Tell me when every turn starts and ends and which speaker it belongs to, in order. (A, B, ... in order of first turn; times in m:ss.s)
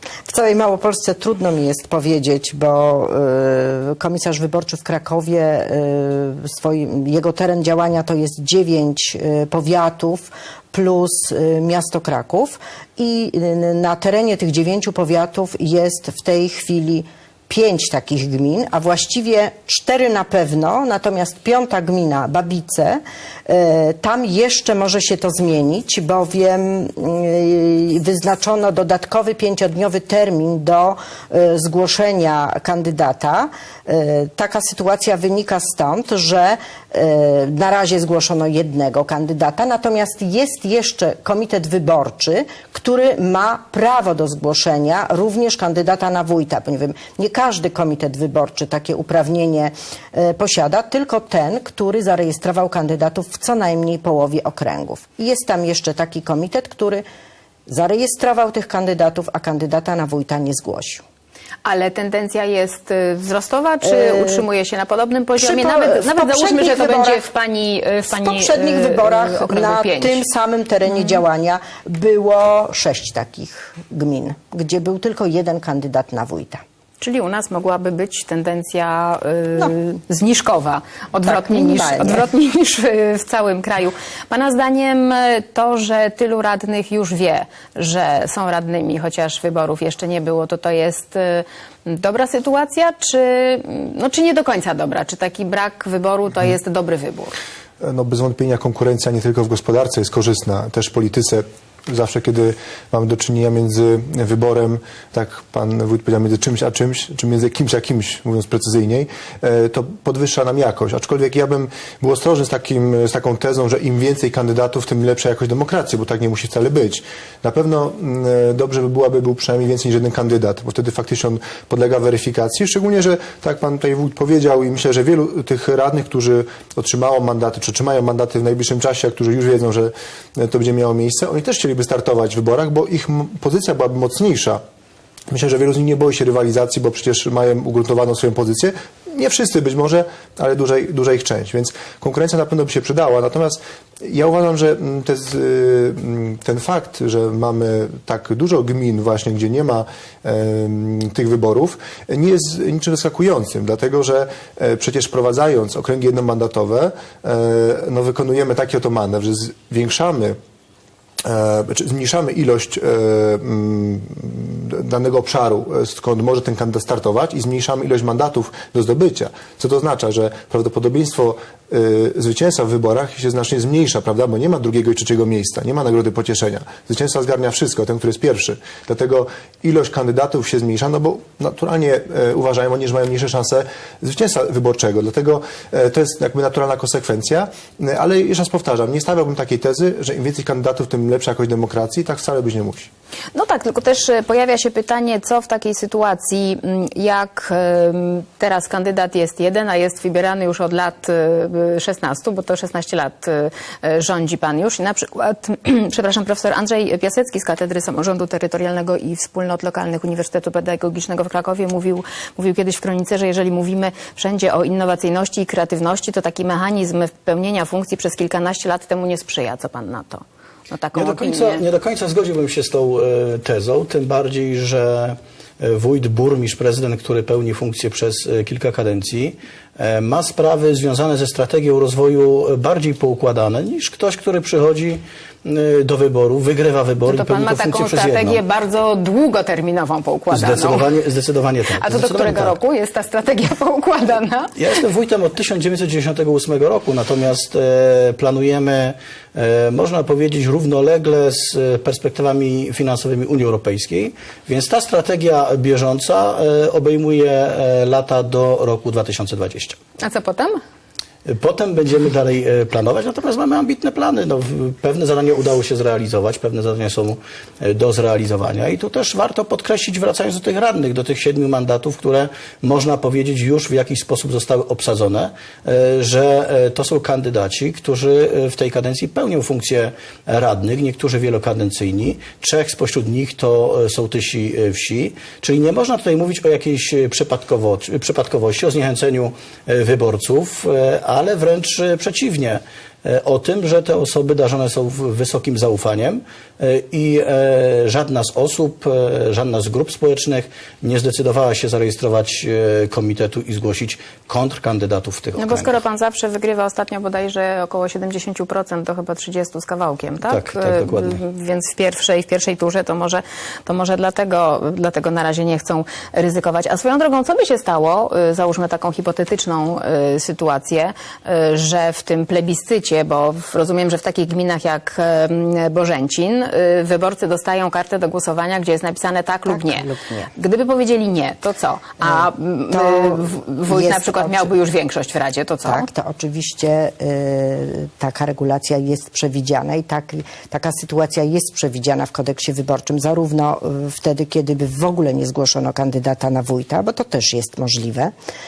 0:00.2-0:57.0 A
0:57.7-1:01.0 A
1:01.6-1:10.2 B
1:03.8-1:04.4 A
1:05.4-1:07.2 A
1:08.1-1:16.6 A
1:10.9-1:11.2 B
1:17.0-1:37.3 B
1:21.2-1:22.2 A
1:37.8-2:14.6 C
2:15.3-2:40.4 C
2:41.2-3:12.9 C
3:13.3-3:41.6 B
3:40.9-3:58.4 D
3:57.0-4:00.9 B
4:00.3-4:02.6 D
4:01.8-4:04.8 B
4:04.6-4:19.8 D
4:20.0-4:20.6 B
4:21.2-5:05.8 D
5:05.4-5:35.9 B
5:10.2-5:11.2 D
5:29.5-5:30.3 A
5:32.0-5:34.5 A
5:35.6-5:48.1 A